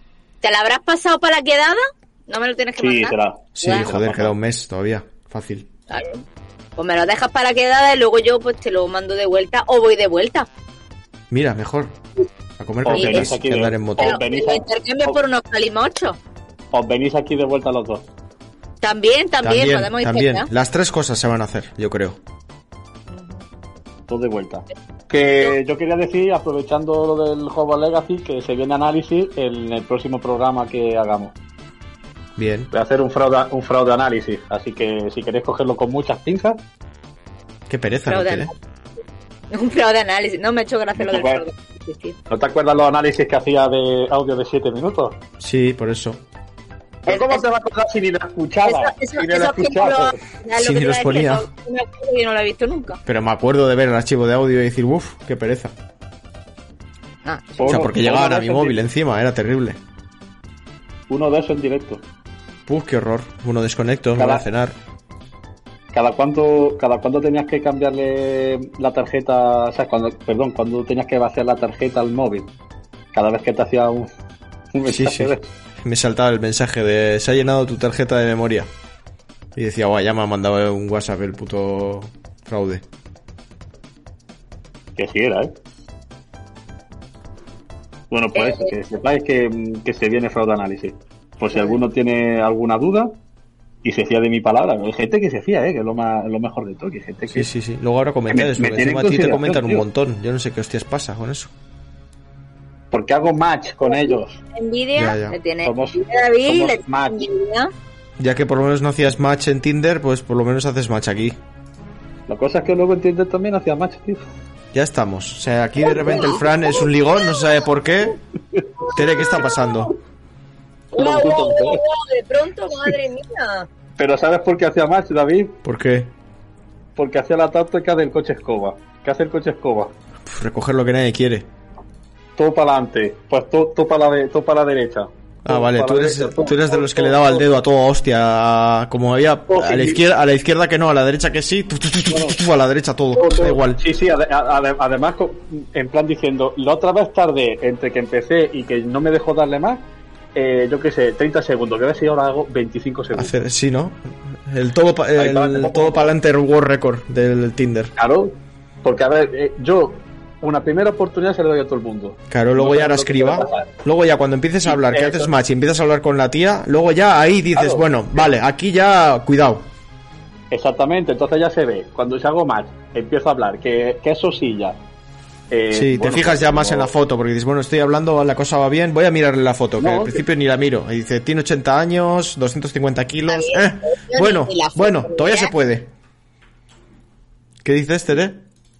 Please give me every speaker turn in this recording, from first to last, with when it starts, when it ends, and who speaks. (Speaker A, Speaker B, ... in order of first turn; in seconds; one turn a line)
Speaker A: 0.4-3.9
Speaker B: 2.8-4.3
Speaker C: 3.5-5.7
Speaker A: 5.9-6.2
Speaker A: 6.8-10.5
Speaker C: 11.3-11.9
Speaker C: 12.6-14.2
Speaker B: 12.8-15.1
Speaker A: 12.9-13.3
Speaker A: 14.0-16.2
Speaker B: 16.7-18.0
Speaker A: 18.8-20.5
Speaker C: 19.4-22.2
Speaker A: 23.1-23.4
Speaker B: 24.1-31.3
Speaker C: 32.4-32.7
Speaker B: 32.7-36.6
Speaker C: 37.7-38.5
Speaker A: 38.0-38.5
Speaker A: 39.5-42.2
Speaker B: 41.0-41.4
Speaker B: 42.3-45.2
Speaker C: 45.4-46.2
Speaker B: 47.0-50.2
Speaker A: 47.1-47.4
Speaker A: 48.6-53.0
Speaker C: 50.5-51.5
Speaker C: 53.0-55.7
Speaker A: 57.2-57.8
Speaker B: 57.6-58.8
Speaker C: 57.6-59.8
Speaker B: 61.1-62.0
Speaker C: 62.7-64.7
Speaker B: 64.2-64.4
Speaker B: 65.9-72.5
Speaker B: 73.1-74.1
Speaker B: 74.7-75.5
Speaker C: 74.8-78.7
Speaker C: 79.5-82.8
Speaker B: 85.0-85.5
Speaker B: 88.1-93.1
Speaker A: 88.3-88.7
Speaker A: 91.5-91.8
Speaker B: 93.8-97.5
Speaker C: 97.3-101.5
Speaker B: 98.3-99.8
Speaker B: 102.9-104.4
Speaker A: 103.9-107.7
Speaker C: 105.0-105.4
Speaker B: 105.6-107.3
Speaker C: 108.2-111.4
Speaker B: 112.3-114.2
Speaker C: 114.7-118.2
Speaker A: 115.8-117.5
Speaker A: 118.9-119.9
Speaker C: 118.9-119.9
Speaker A: 120.9-123.7
Speaker B: 121.0-121.8
Speaker B: 124.0-125.6
Speaker C: 125.6-126.1
Speaker B: 127.0-129.9
Speaker C: 130.2-131.5
Speaker B: 132.4-137.4
Speaker C: 135.4-143.8
Speaker B: 139.5-140.0
Speaker B: 142.1-142.4
Speaker B: 143.2-149.8
Speaker B: 150.3-153.3
Speaker C: 153.1-157.9
Speaker B: 155.2-156.1
Speaker B: 158.0-163.7
Speaker C: 162.3-169.7
Speaker B: 164.7-165.3
Speaker B: 167.6-168.2
Speaker B: 170.5-174.8
Speaker B: 175.5-176.9
Speaker C: 175.7-185.9
Speaker B: 179.8-180.2
Speaker A: 183.3-185.5
Speaker C: 187.6-188.4